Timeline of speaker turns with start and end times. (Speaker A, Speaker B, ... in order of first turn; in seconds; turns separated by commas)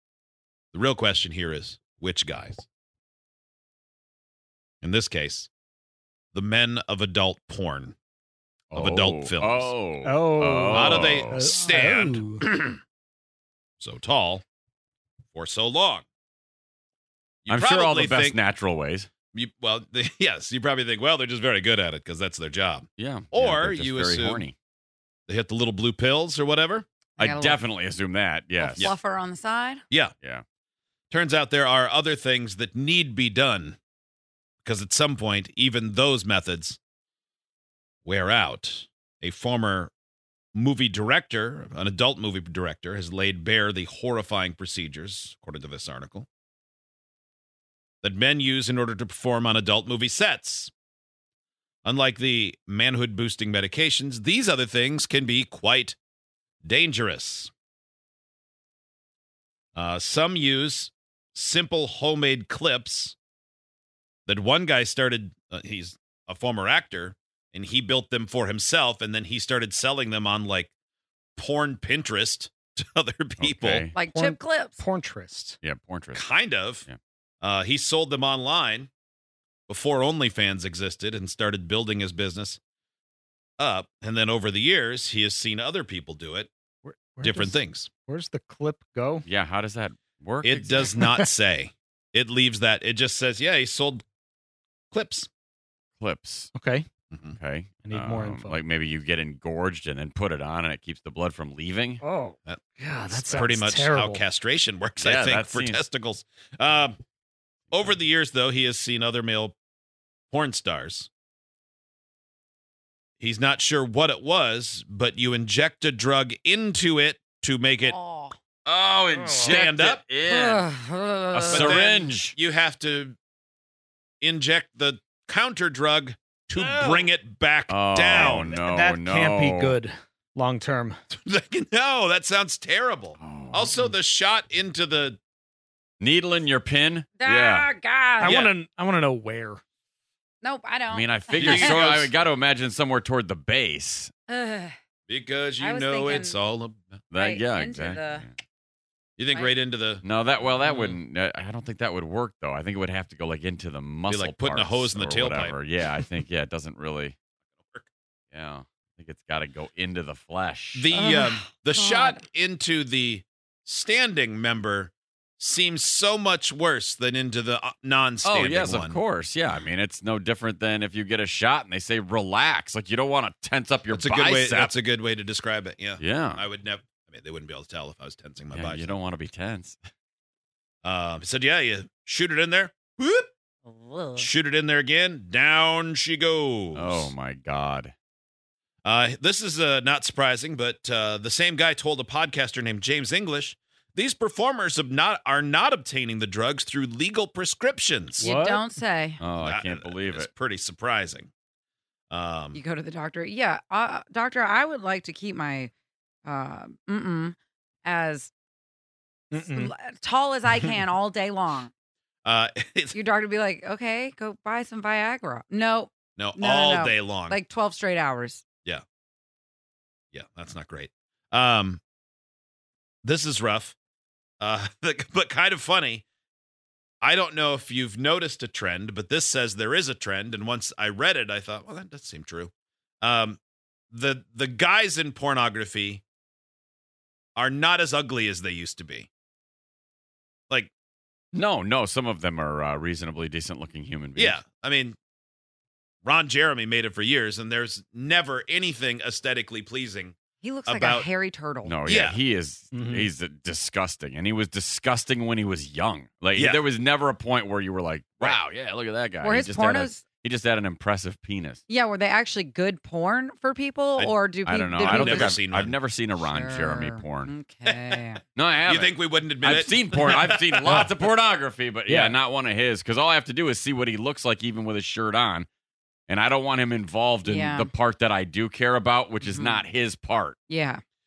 Speaker A: 0.7-2.6, Speaker A: 4.8-5.5, Speaker A: 6.3-8.0, Speaker B: 8.7-11.5, Speaker A: 8.7-9.7, Speaker C: 10.0-12.4, Speaker A: 10.7-12.8, Speaker D: 11.6-11.9, Speaker A: 13.8-14.4, Speaker A: 15.3-16.1, Speaker A: 17.5-18.4, Speaker B: 17.5-19.1, Speaker A: 19.3-24.5, Speaker B: 23.0-24.6, Speaker A: 25.3-26.9, Speaker D: 27.2-27.6, Speaker B: 27.2-28.9, Speaker D: 28.6-29.8, Speaker A: 31.1-33.8, Speaker A: 34.6-36.8, Speaker A: 38.0-39.9, Speaker A: 40.5-46.3, Speaker A: 48.0-50.7, Speaker A: 51.8-56.0, Speaker A: 56.6-57.5, Speaker A: 59.8-63.2, Speaker A: 64.2-70.7, Speaker A: 71.3-73.8, Speaker B: 73.4-73.9, Speaker D: 73.9-74.8, Speaker C: 74.1-75.6, Speaker B: 75.6-76.2, Speaker A: 76.1-76.9, Speaker A: 77.4-78.9, Speaker A: 79.7-82.6, Speaker A: 83.6-86.5, Speaker C: 86.8-89.2, Speaker A: 87.2-87.9, Speaker B: 89.2-91.0, Speaker A: 90.4-94.0, Speaker C: 91.0-91.2, Speaker A: 94.9-95.3, Speaker B: 96.0-96.5, Speaker C: 96.5-96.9, Speaker A: 97.1-97.4, Speaker B: 97.3-102.0, Speaker C: 97.8-98.6, Speaker C: 102.0-104.2, Speaker A: 102.5-107.0, Speaker B: 103.2-103.5, Speaker B: 105.0-105.8, Speaker A: 107.7-109.5, Speaker A: 110.3-111.1, Speaker A: 113.2-118.0, Speaker D: 117.8-118.4, Speaker B: 118.6-120.7, Speaker A: 119.4-120.0, Speaker D: 120.2-121.8, Speaker A: 121.3-123.2, Speaker B: 121.3-122.3, Speaker A: 124.2-128.6, Speaker B: 127.7-129.8, Speaker C: 128.2-131.0, Speaker A: 131.1-135.2, Speaker B: 133.2-133.9, Speaker B: 136.0-137.7, Speaker D: 137.2-138.4, Speaker C: 138.2-139.6, Speaker A: 138.2-138.5, Speaker D: 140.4-141.8, Speaker B: 140.9-144.1, Speaker A: 141.3-142.1, Speaker D: 144.3-144.8, Speaker A: 145.1-146.9, Speaker D: 145.6-146.4, Speaker B: 147.1-148.3, Speaker D: 147.2-148.2, Speaker A: 149.2-150.0, Speaker B: 150.0-157.2, Speaker D: 150.6-151.0, Speaker A: 154.1-155.6, Speaker B: 158.3-160.9, Speaker A: 160.8-169.0, Speaker D: 160.9-162.2, Speaker B: 168.2-174.8, Speaker A: 173.9-178.9, Speaker B: 176.0-176.4, Speaker B: 178.5-179.8, Speaker A: 180.8-183.3, Speaker D: 183.7-184.3, Speaker A: 184.2-187.1, Speaker B: 186.8-187.9, Speaker A: 188.8-198.3, Speaker C: 198.2-198.7, Speaker D: 198.2-199.2, Speaker B: 199.2-200.3, Speaker A: 199.4-201.3, Speaker A: 202.1-202.6, Speaker D: 202.5-205.7, Speaker D: 206.2-208.3, Speaker C: 209.3-209.7, Speaker D: 209.3-211.7, Speaker A: 212.2-212.9, Speaker D: 212.9-218.4, Speaker A: 216.2-217.4, Speaker A: 220.1-221.8, Speaker A: 223.0-223.8, Speaker A: 224.4-226.0, Speaker A: 227.0-233.4, Speaker A: 233.9-236.0, Speaker A: 237.3-239.1, Speaker B: 241.3-244.4, Speaker A: 244.2-245.0, Speaker A: 246.0-251.1, Speaker D: 250.4-251.8, Speaker B: 251.6-261.6, Speaker A: 251.8-252.2, Speaker C: 252.7-253.1, Speaker A: 256.4-256.6, Speaker D: 259.2-260.0, Speaker D: 261.7-265.4, Speaker B: 264.4-267.3, Speaker A: 264.9-265.8, Speaker D: 266.2-268.2, Speaker B: 268.4-275.5, Speaker A: 268.7-270.9, Speaker C: 271.9-272.1, Speaker B: 276.1-280.4, Speaker D: 277.2-277.7, Speaker D: 279.2-279.6, Speaker D: 280.5-280.8